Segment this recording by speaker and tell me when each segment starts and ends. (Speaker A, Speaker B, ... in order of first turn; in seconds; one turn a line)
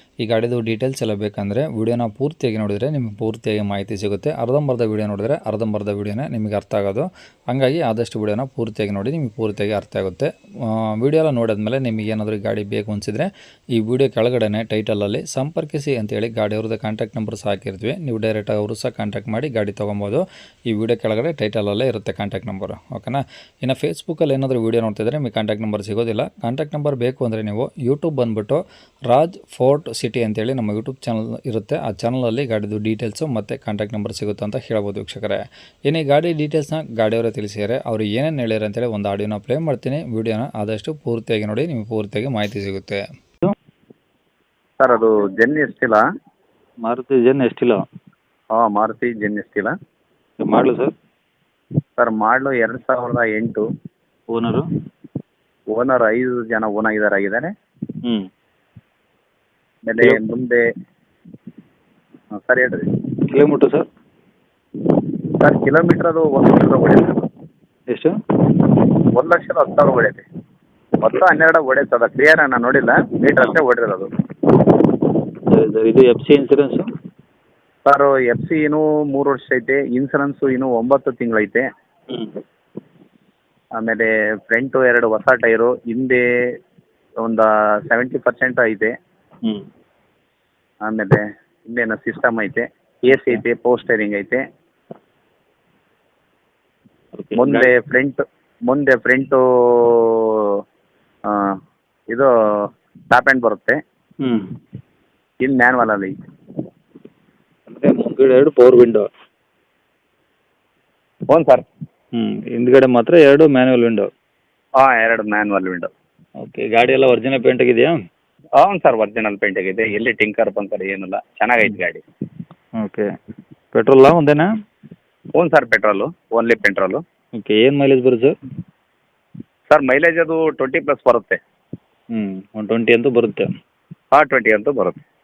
Speaker A: 0.2-43.0
Speaker B: 44.8-46.0
Speaker C: 46.9-47.8
Speaker B: 48.5-49.7
Speaker C: 50.4-50.9
Speaker B: 52.0-53.6
Speaker C: 54.3-54.6
Speaker B: 55.7-57.5
Speaker B: 59.9-60.6
Speaker B: 62.4-63.0
Speaker C: 63.3-63.9
Speaker B: 65.4-67.1
Speaker B: 69.2-70.2
Speaker B: 71.0-74.1
Speaker C: 75.5-76.8
Speaker B: 77.9-81.7
Speaker C: 82.1-82.4
Speaker B: 83.8-86.2
Speaker B: 87.2-88.9
Speaker B: 90.8-94.4
Speaker C: 97.2-97.7
Speaker B: 97.3-100.6
Speaker B: 101.3-101.6
Speaker B: 103.1-103.8
Speaker C: 104.2-104.5
Speaker B: 105.4-106.1
Speaker C: 107.7-109.1
Speaker B: 111.3-111.7
Speaker C: 112.2-114.1
Speaker B: 114.8-115.9
Speaker C: 116.5-117.9
Speaker B: 118.6-122.0
Speaker C: 123.7-124.5
Speaker B: 125.4-127.0
Speaker C: 127.4-128.3
Speaker B: 129.7-131.4
Speaker C: 132.1-133.5
Speaker B: 134.1-135.0